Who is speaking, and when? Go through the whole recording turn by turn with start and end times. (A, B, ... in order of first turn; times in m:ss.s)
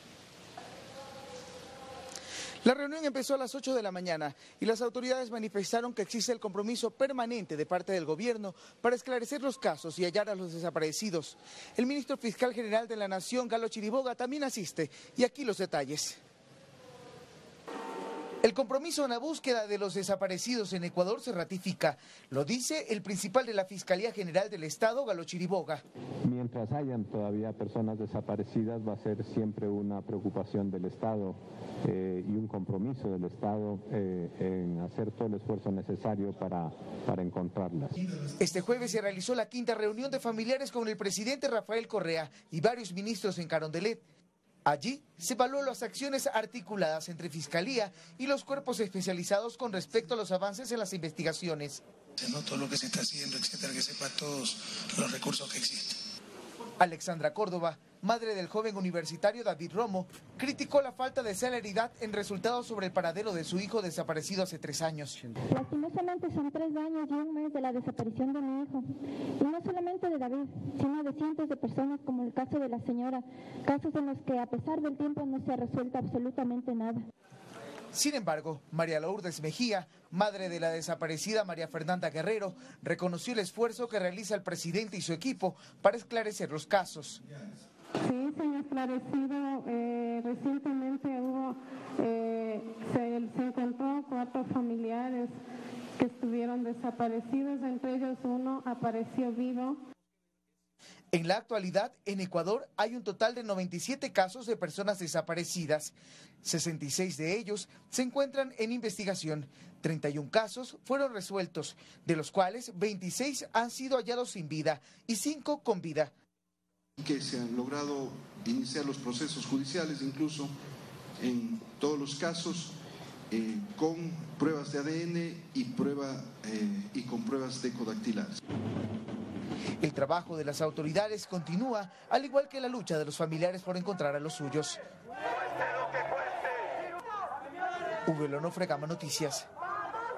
0:02.6-0:16.2 A
0:18.4-0:25.8 A
0:26.2-0:37.9 B
0:38.4-0:44.0 A
0:44.6-0:51.8 A
0:52.2-0:56.0 C
0:56.8-1:05.2 A
1:05.5-1:08.8 D
1:09.4-1:17.0 D
1:17.9-1:27.2 A
1:28.0-1:35.4 E
1:36.0-1:39.8 E
1:41.1-1:56.1 A
1:57.0-2:00.5 F
2:01.2-2:02.8 F
2:03.3-2:08.4 F
2:09.8-2:14.8 A
2:18.1-2:19.5 A